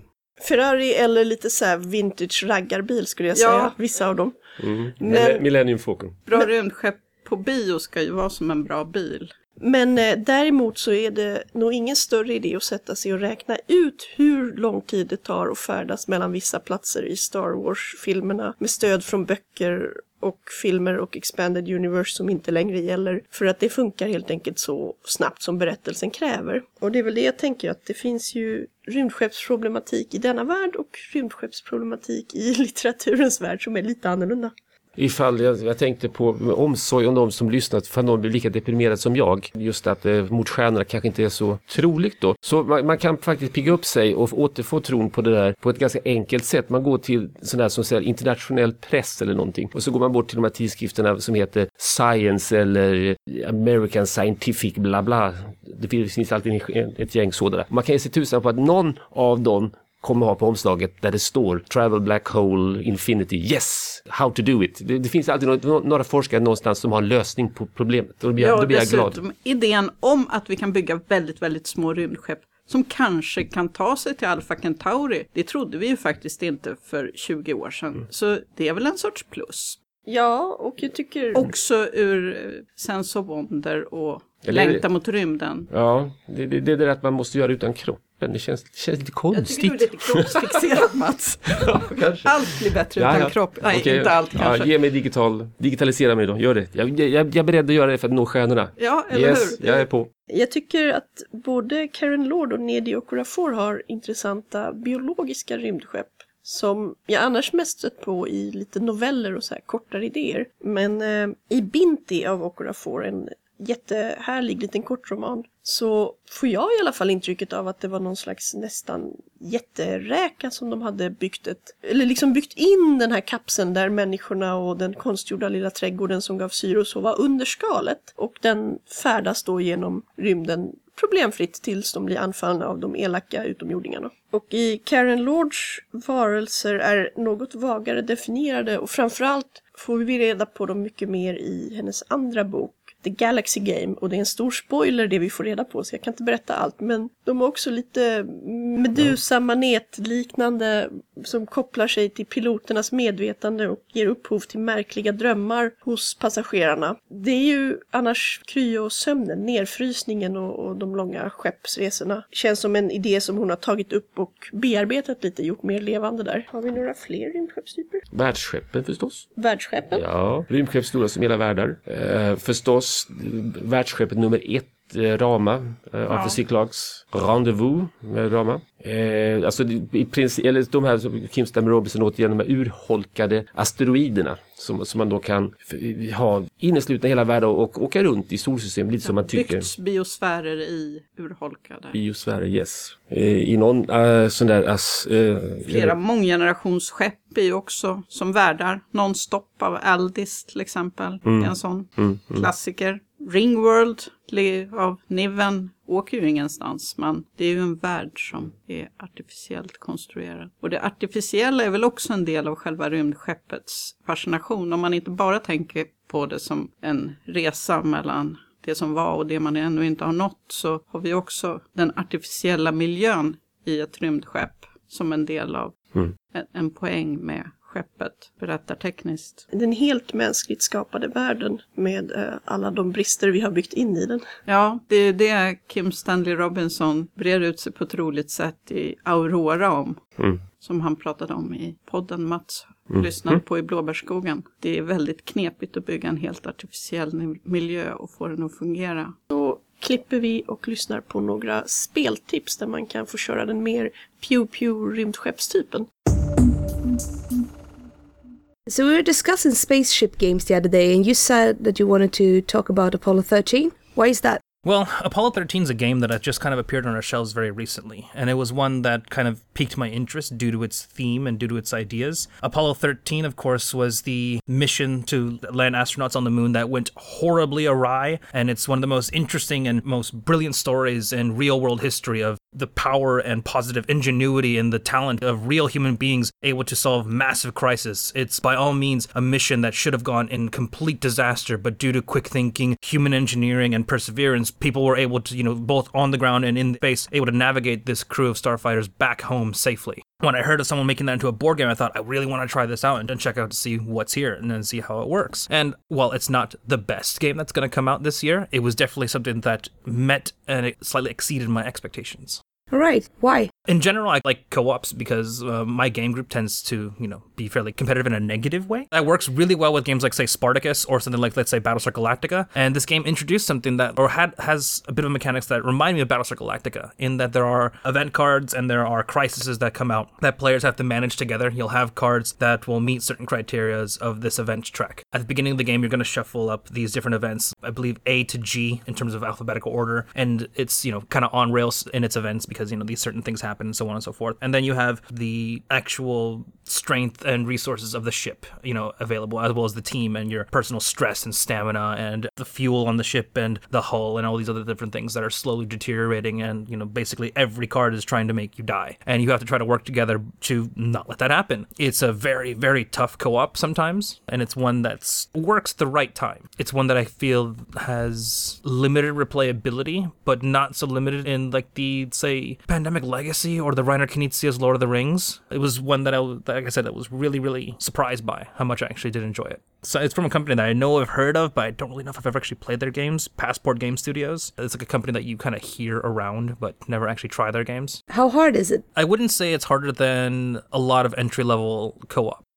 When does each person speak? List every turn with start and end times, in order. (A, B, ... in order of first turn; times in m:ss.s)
0:00.4-0:04.4 A
0:03.3-0:03.7 B
0:04.6-0:06.2 C
0:05.0-0:05.4 A
0:05.1-0:05.4 B
0:06.3-0:09.3 B
0:09.6-0:34.5 A
0:35.0-1:09.2 C
1:08.4-1:19.8 B
1:20.0-1:21.5 A
1:21.3-1:25.7 B
1:24.4-1:24.8 C
1:25.7-1:30.8 C
1:29.3-1:34.7 B
1:31.6-1:40.1 C
1:38.8-1:39.8 B
1:40.3-2:48.0 A
2:48.1-2:49.3 C
2:49.4-2:50.0 A
2:49.9-3:09.7 C
2:56.1-2:56.4 B
3:09.0-3:12.0 B
3:11.9-3:15.9 C
3:15.6-3:45.7 B
3:21.2-3:22.5 C
3:46.3-3:49.4 B
3:49.5-3:54.2 A
3:54.5-4:00.0 B
4:00.6-4:09.1 B
4:02.9-4:03.4 C
4:09.3-4:15.9 A
4:18.7-4:24.4 D
4:24.6-5:12.4 E
5:12.7-5:13.5 D
5:13.7-6:28.0 E
6:28.1-6:28.8 D
6:28.9-6:32.4 E